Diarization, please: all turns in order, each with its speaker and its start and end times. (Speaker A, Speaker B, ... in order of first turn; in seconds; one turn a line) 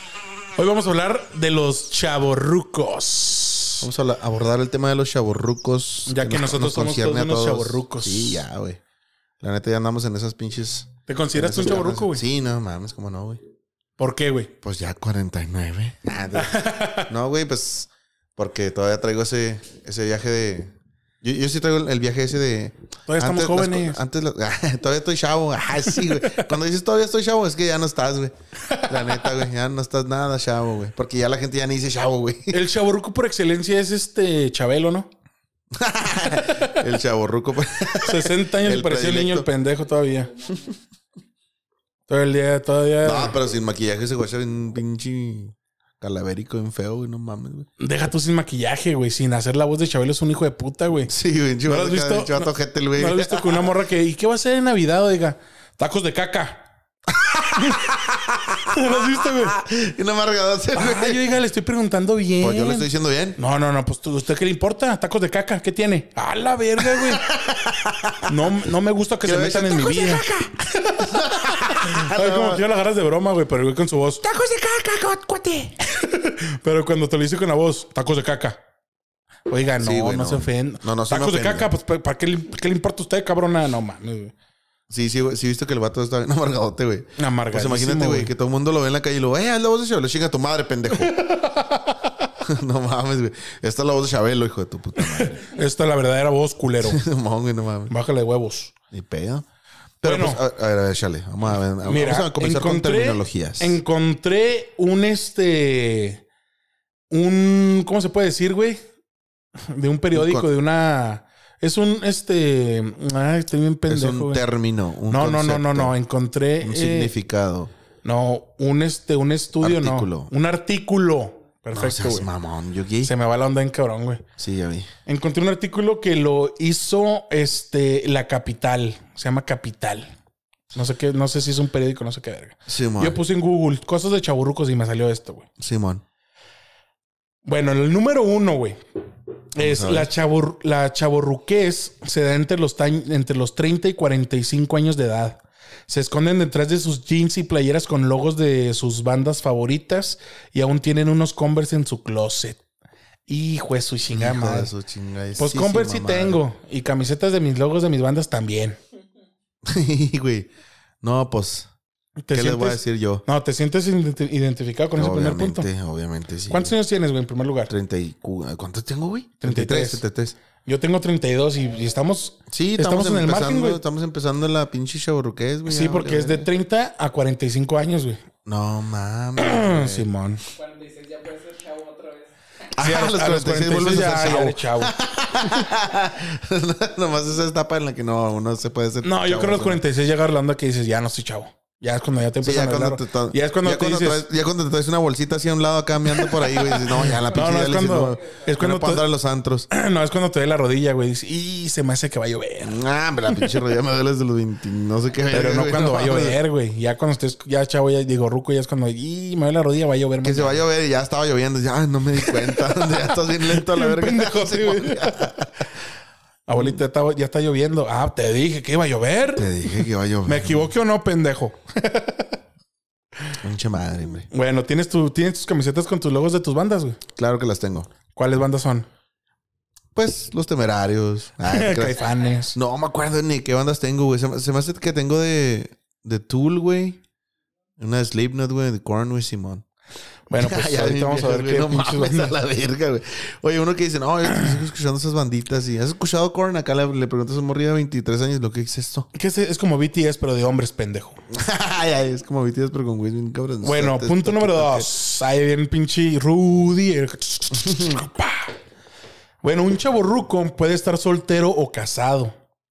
Speaker A: 0.6-3.9
Speaker B: 3.8-8.8
Speaker A: 6.1-8.4
Speaker B: 9.4-13.4
Speaker A: 11.1-12.2
Speaker A: 14.0-14.5
Speaker B: 14.6-28.3
Speaker A: 16.4-17.1
Speaker A: 23.1-24.0
Speaker A: 26.0-26.5
Speaker A: 28.7-29.4
Speaker B: 28.9-32.6
Speaker A: 32.5-35.1
Speaker B: 35.7-39.5
Speaker A: 36.2-36.8
Speaker A: 38.0-40.3
Speaker C: 40.1-40.7
Speaker A: 42.1-43.4
Speaker B: 43.0-47.7
Speaker A: 47.8-51.1
Speaker B: 51.1-53.7
Speaker A: 51.7-56.6
Speaker B: 57.1-61.2
Speaker A: 57.6-57.9
Speaker A: 58.7-59.6
Speaker A: 60.8-67.3
Speaker B: 62.4-63.4
Speaker B: 66.8-68.5
Speaker A: 68.2-74.2
Speaker B: 69.2-72.6
Speaker B: 74.2-75.8
Speaker A: 75.8-78.6
Speaker A: 79.5-84.3
Speaker B: 79.8-81.7
Speaker B: 84.9-91.2
Speaker A: 87.2-88.3
Speaker A: 91.0-92.3
Speaker B: 92.4-95.6
Speaker A: 95.0-97.0
Speaker B: 96.8-97.9
Speaker A: 97.9-98.7
Speaker B: 98.9-99.5
Speaker B: 100.0-103.8
Speaker A: 100.0-100.4
Speaker A: 101.8-106.2
Speaker A: 107.1-108.8
Speaker A: 109.6-114.4
Speaker B: 110.1-110.5
Speaker B: 113.9-116.0
Speaker A: 115.1-117.1
Speaker B: 116.6-117.7
Speaker A: 118.0-122.3
Speaker B: 119.6-120.3
Speaker B: 121.7-123.1
Speaker A: 123.0-124.3
Speaker B: 124.4-124.9
Speaker A: 125.1-130.1
Speaker A: 130.7-135.5
Speaker B: 132.7-133.2
Speaker B: 135.6-136.0
Speaker A: 137.4-138.8
Speaker A: 139.6-152.6
Speaker B: 139.6-140.1
Speaker A: 153.3-154.7
Speaker B: 154.1-156.4
Speaker A: 155.4-158.8
Speaker B: 159.7-160.5
Speaker B: 161.0-161.7
Speaker A: 162.2-165.7
Speaker B: 162.3-163.2
Speaker B: 165.0-166.7
Speaker A: 166.5-167.7
Speaker B: 167.7-170.4
Speaker A: 169.4-170.0
Speaker A: 170.7-173.8
Speaker B: 172.5-176.5
Speaker A: 175.7-178.2
Speaker B: 178.4-180.1
Speaker A: 179.4-180.4
Speaker C: 180.5-182.3
Speaker B: 182.8-189.8
Speaker A: 182.8-184.9
Speaker A: 189.0-194.2
Speaker B: 192.4-199.7
Speaker A: 196.1-199.0
Speaker A: 199.7-203.5
Speaker B: 202.6-206.4
Speaker A: 205.3-210.6
Speaker B: 210.2-215.5
Speaker A: 212.3-215.3
Speaker A: 216.5-219.7
Speaker B: 219.4-220.7
Speaker A: 220.2-222.4
Speaker B: 223.4-224.3
Speaker A: 224.3-227.0
Speaker B: 227.2-227.9
Speaker A: 228.1-228.9
Speaker B: 229.9-232.0
Speaker A: 231.5-232.6
Speaker B: 232.5-237.0
Speaker B: 237.8-239.7
Speaker A: 240.3-242.3
Speaker B: 240.4-249.1
Speaker A: 249.1-251.2
Speaker B: 251.3-254.9
Speaker A: 253.6-258.5
Speaker B: 257.6-258.0
Speaker A: 259.4-262.4